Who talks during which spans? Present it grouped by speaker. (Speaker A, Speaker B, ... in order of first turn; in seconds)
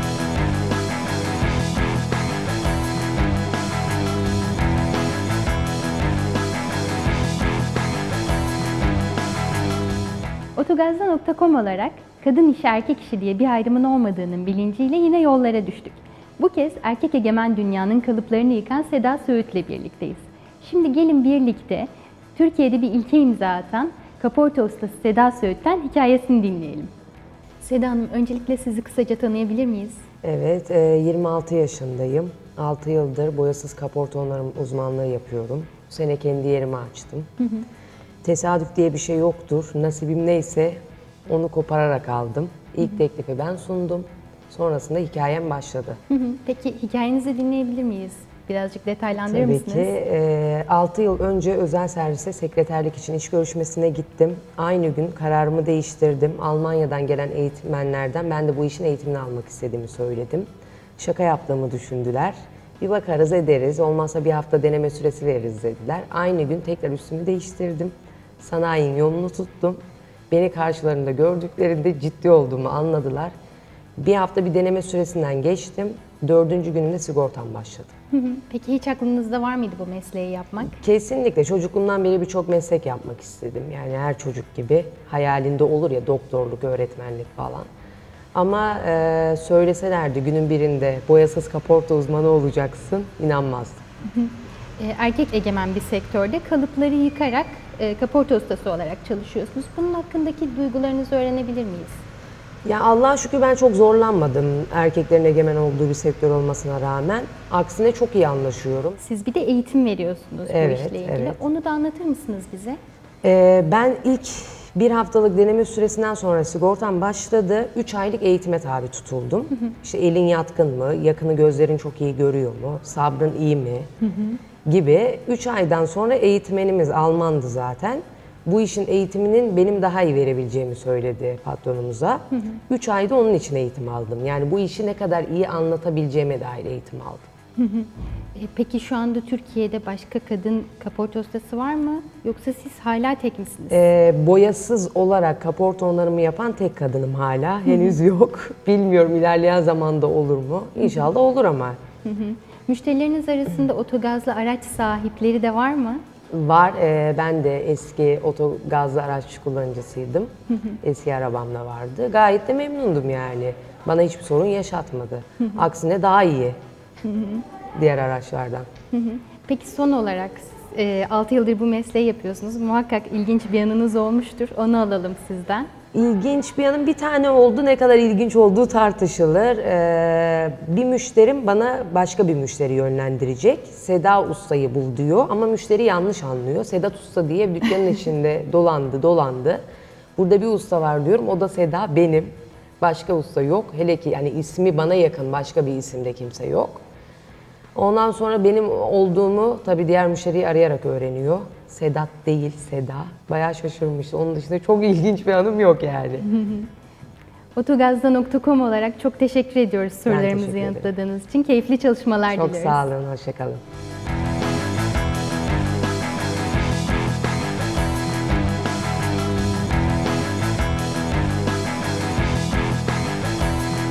Speaker A: 10.6-26.9, 27.6-30.0, 37.4-37.7, 46.1-49.9, 78.1-80.8, 94.1-102.0, 109.0-112.8, 124.0-124.4, 137.6-143.8, 152.1-156.0, 167.0-167.4, 168.9-175.7, 206.2-206.7, 207.6-212.8
Speaker B: 30.2-37.3, 38.2-46.0, 49.2-73.3, 74.0-77.9, 80.7-87.7, 88.3-93.8, 102.6-109.0, 110.5-111.4, 113.2-123.9, 124.7-137.3, 143.7-151.8, 156.3-160.3, 160.8-166.6, 167.8-168.7, 175.9-189.6, 190.2-196.8, 197.8-206.2, 210.1-210.9, 212.3-213.6